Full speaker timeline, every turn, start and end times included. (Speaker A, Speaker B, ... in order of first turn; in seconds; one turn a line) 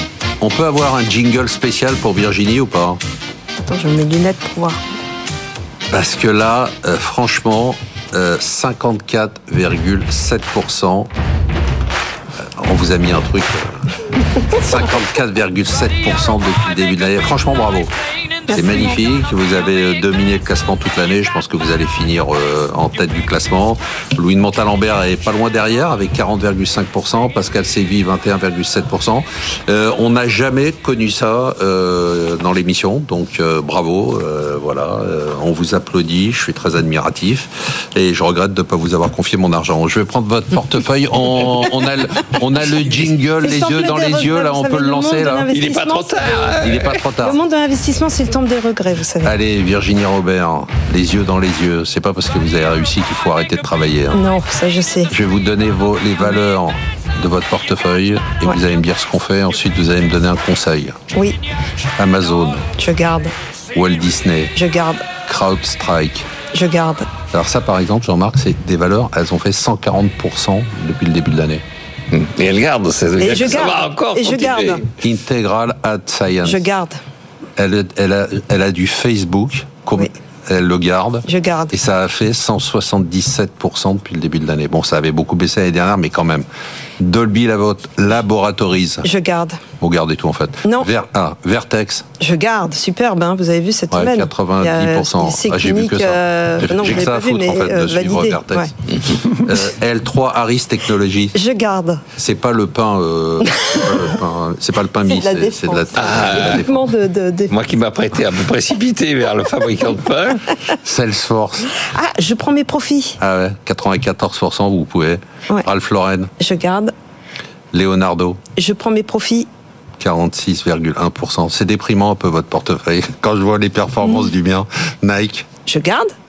Speaker A: 0.4-3.0
Speaker B: 3.6-4.8
Speaker A: 5.9-11.1
Speaker A: 12.4-13.8
Speaker A: 14.5-17.9
Speaker B: 18.5-19.0
Speaker A: 18.5-45.5
Speaker B: 43.4-46.6
Speaker C: 45.5-47.0
Speaker A: 46.6-47.4
Speaker B: 47.2-49.3
Speaker A: 49.2-54.2
Speaker B: 54.1-55.1
Speaker A: 55.1-61.0
Speaker A: 62.0-62.6
Speaker B: 62.8-63.3
Speaker A: 63.7-64.5
Speaker B: 64.5-65.0
Speaker A: 65.2-66.3
Speaker B: 66.5-67.1
Speaker A: 67.3-71.6
Speaker C: 72.1-74.9
Speaker B: 73.2-74.8
Speaker A: 75.0-76.6
Speaker B: 76.4-77.0
Speaker A: 77.6-86.5
Speaker B: 81.3-81.8
Speaker A: 87.0-89.1
Speaker B: 89.0-89.6
Speaker A: 89.8-92.0
Speaker B: 92.2-98.7
Speaker A: 93.9-101.3
Speaker B: 101.3-102.0
Speaker A: 102.2-106.8
Speaker B: 105.1-107.5
Speaker C: 106.0-106.6
Speaker C: 107.5-110.6
Speaker A: 110.7-111.8
Speaker B: 111.9-113.2
Speaker A: 113.2-116.3
Speaker B: 116.4-116.9
Speaker A: 117.7-118.4
Speaker B: 118.6-119.5
Speaker A: 120.0-125.5
Speaker B: 125.7-126.1